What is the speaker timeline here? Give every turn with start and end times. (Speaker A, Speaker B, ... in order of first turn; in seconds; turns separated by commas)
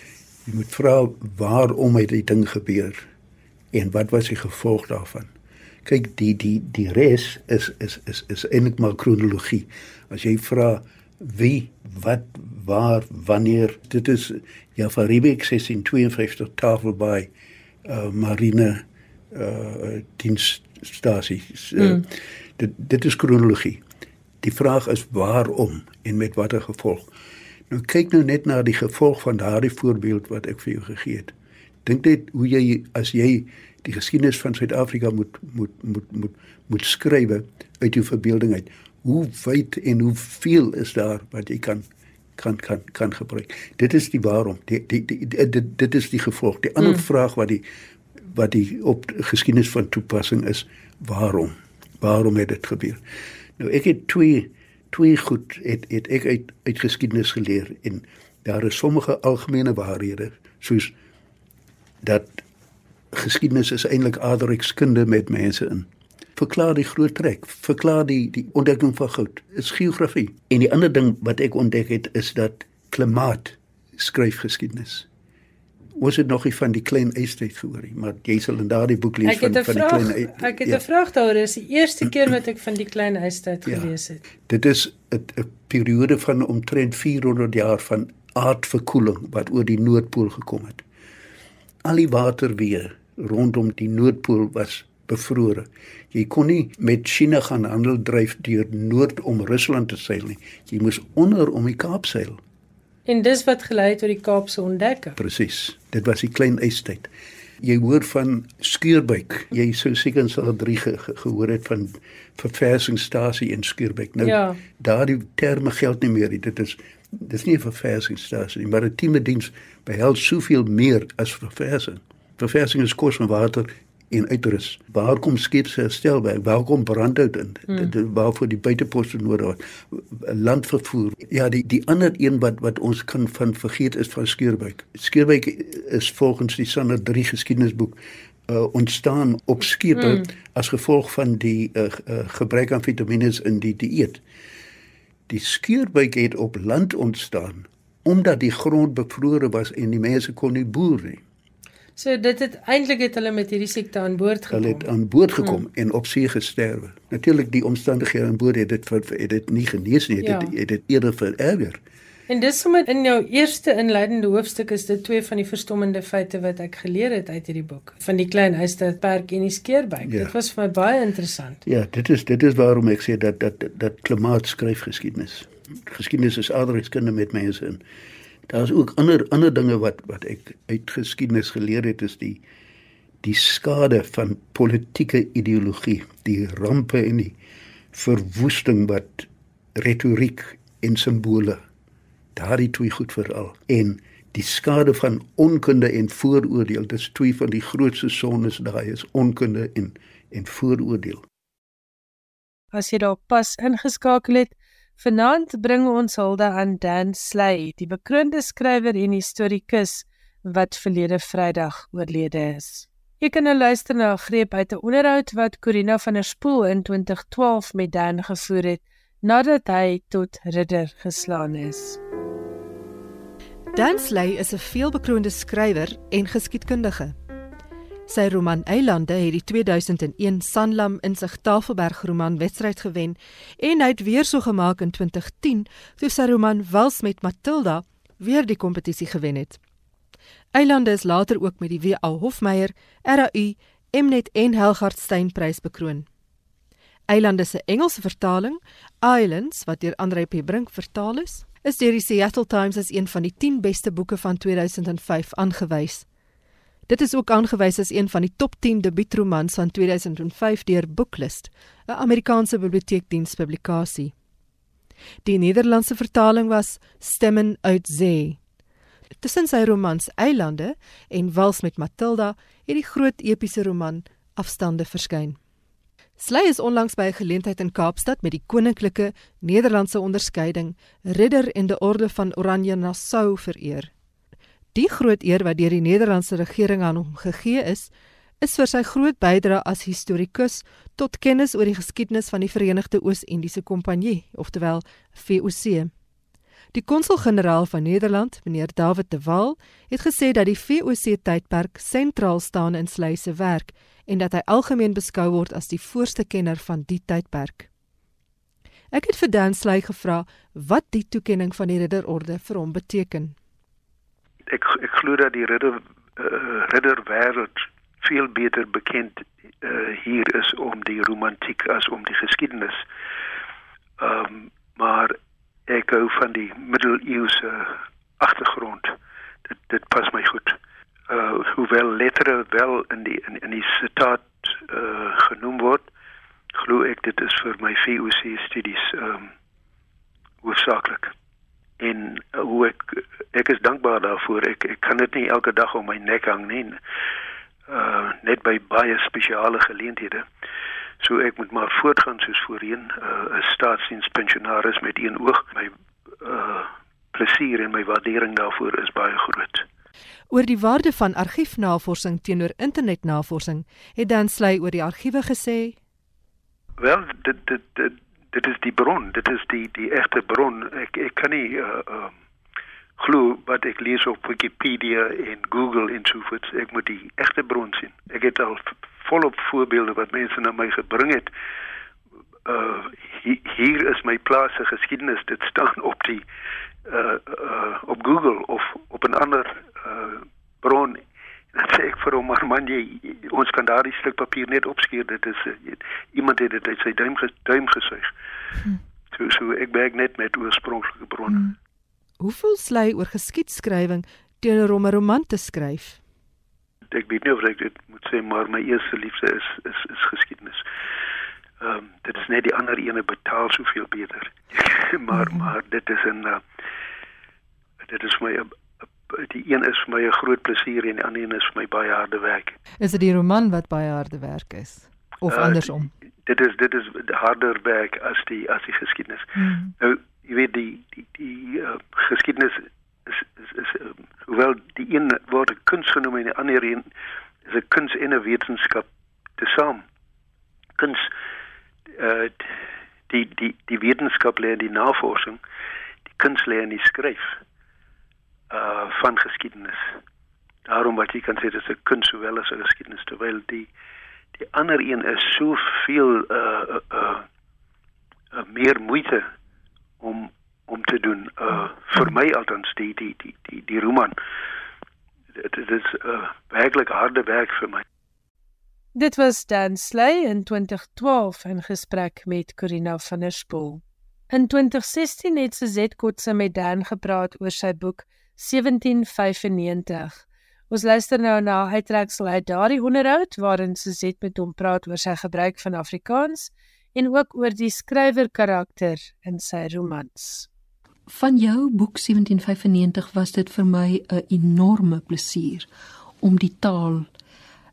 Speaker A: 0.5-3.0, Speaker A: 3.7-5.3, Speaker A: 5.8-17.3, Speaker A: 17.8-23.8, Speaker A: 24.4-27.1, Speaker A: 27.7-31.3, Speaker A: 31.8-41.8, Speaker A: 42.4-47.6, Speaker A: 48.3-53.0, Speaker A: 53.6-60.9, Speaker A: 62.0-62.4, Speaker A: 63.1-75.1, Speaker A: 76.0-80.8, Speaker B: 79.2-84.2, Speaker A: 83.7-83.9, Speaker A: 84.5-90.8, Speaker A: 91.8-102.4, Speaker B: 103.0-105.2, Speaker A: 105.2-107.1, Speaker A: 107.6-144.2, Speaker B: 114.2-114.6, Speaker B: 140.0-140.2, Speaker A: 145.3-151.2, Speaker B: 152.0-154.9, Speaker A: 154.5-161.8, Speaker B: 160.2-160.5, Speaker B: 162.3-171.6, Speaker A: 170.0-170.3, Speaker A: 171.7-177.8, Speaker A: 178.5-182.4, Speaker A: 183.2-187.4, Speaker A: 187.9-191.6, Speaker A: 192.3-201.2, Speaker B: 202.7-222.0, Speaker C: 223.7-227.1, Speaker C: 228.1-239.6, Speaker C: 240.5-246.1, Speaker C: 247.1-256.1, Speaker C: 256.9-264.1, Speaker C: 265.2-268.4, Speaker C: 269.2-275.4, Speaker C: 276.2-283.9, Speaker C: 284.7-295.9, Speaker C: 296.7-307.7, Speaker C: 308.9-313.3, Speaker D: 314.5-322.8, Speaker D: 324.0-328.9, Speaker D: 329.5-330.6, Speaker D: 331.1-335.9, Speaker D: 336.5-339.3, Speaker D: 340.4-341.1, Speaker D: 341.8-346.8, Speaker D: 347.7-350.2, Speaker D: 351.0-359.6, Speaker C: 360.3-365.8, Speaker D: 366.8-372.1, Speaker D: 373.0-381.3, Speaker D: 382.4-386.2, Speaker D: 386.9-398.1, Speaker D: 399.1-401.5, Speaker C: 402.2-406.0, Speaker D: 406.9-410.6, Speaker D: 411.6-416.4, Speaker C: 415.1-415.5, Speaker D: 417.8-418.5, Speaker D: 419.1-422.6, Speaker C: 422.8-425.9, Speaker D: 425.3-425.7, Speaker D: 426.2-436.9, Speaker C: 429.4-429.7, Speaker D: 437.4-438.9, Speaker D: 439.4-439.8, Speaker D: 440.8-441.1, Speaker D: 441.9-442.5, Speaker D: 443.1-445.4, Speaker D: 446.1-447.4, Speaker D: 448.5-449.9, Speaker D: 450.6-453.7, Speaker D: 454.4-457.2, Speaker D: 458.3-459.3, Speaker D: 460.0-464.1, Speaker D: 465.4-467.8, Speaker B: 468.9-490.5, Speaker E: 491.1-495.7, Speaker E: 496.2-497.1